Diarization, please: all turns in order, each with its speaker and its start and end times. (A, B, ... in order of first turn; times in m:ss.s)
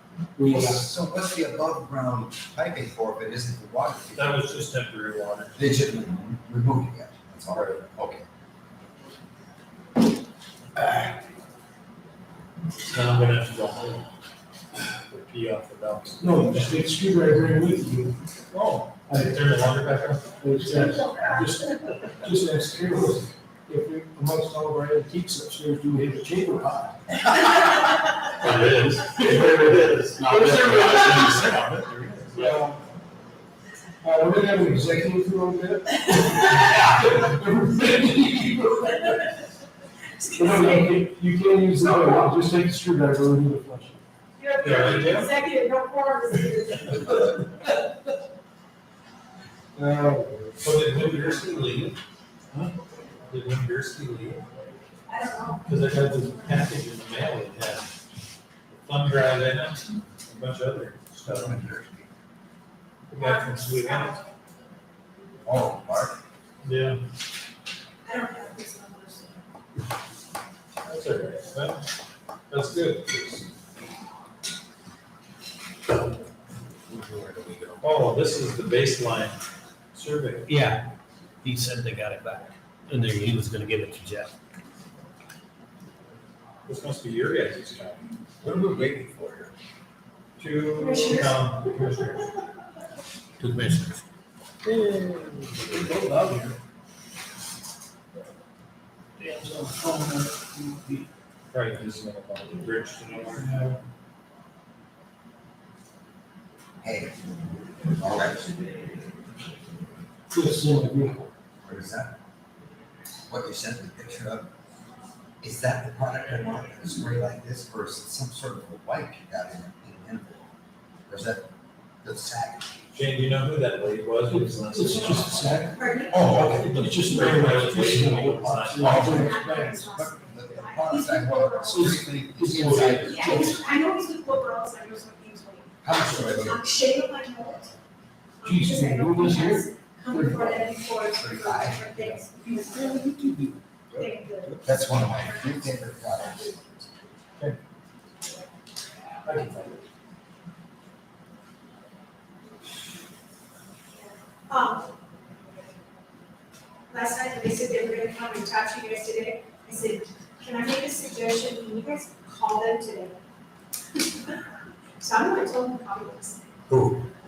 0:00.4-0:00.9 A
0:00.4-0:04.4 B
0:04.1-0:05.6 C
0:05.6-0:08.2 B
0:07.5-0:07.8 C
0:12.9-0:14.0 C
0:15.1-0:16.7 C
0:16.2-0:18.2 A
0:18.5-0:20.3 C
0:19.1-0:19.4 A
0:20.4-0:27.0 A
0:28.4-0:32.6 C
0:28.4-0:31.8 D
0:32.3-0:32.8 A
0:34.0-0:39.2 A
0:40.2-0:40.9 E
0:40.3-0:44.0 A
0:44.4-0:47.4 E
0:44.6-0:45.3 C
0:49.8-0:50.9 A
0:50.6-0:52.0 C
0:53.3-0:54.4 C
0:55.1-0:56.3 E
0:55.6-0:57.9 C
0:58.7-1:01.6 C
1:01.2-1:02.1 B
1:03.1-1:04.2 C
1:03.2-1:04.4 E
1:05.4-1:06.2 B
1:06.6-1:07.0 C
1:08.0-1:09.4 E
1:10.8-1:11.8 C
1:12.5-1:13.5 C
1:16.9-1:17.8 D
1:17.8-1:19.4 C
1:19.9-1:20.5 C
1:20.5-1:20.9 D
1:21.4-1:24.3 D
1:26.7-1:28.1 C
1:28.4-1:29.5 B
1:30.4-1:32.3 C
1:30.8-1:31.4 E
1:33.4-1:34.0 D
1:35.5-1:36.6 A
1:39.2-1:41.1 A
1:41.5-1:43.6 C
1:43.4-1:43.8 A
1:46.8-1:47.2 B
1:47.8-1:48.5 B
1:50.3-1:51.3 A
1:51.6-1:52.1 B
1:53.3-1:54.5 B
1:55.4-2:00.5 B
2:01.1-2:01.5 B
2:02.0-2:02.8 B
2:02.9-2:05.6 C
2:04.3-2:09.9 A
2:05.8-2:06.4 E
2:06.1-2:06.8 B
2:06.5-2:09.1 C
2:08.8-2:13.6 B
2:08.8-2:11.9 E
2:11.6-2:13.6 A
2:13.0-2:17.7 E
2:15.8-2:16.6 B
2:18.4-2:23.2 E
2:18.4-2:20.5 A
2:21.1-2:22.2 B
2:23.1-2:23.5 A
2:23.9-2:26.6 B
2:24.0-2:27.1 E
2:29.2-2:29.8 C
2:34.0-2:34.9 E
2:36.9-2:43.2 E
2:44.0-2:44.4 E
2:45.0-2:46.5 E
2:46.7-2:47.1 B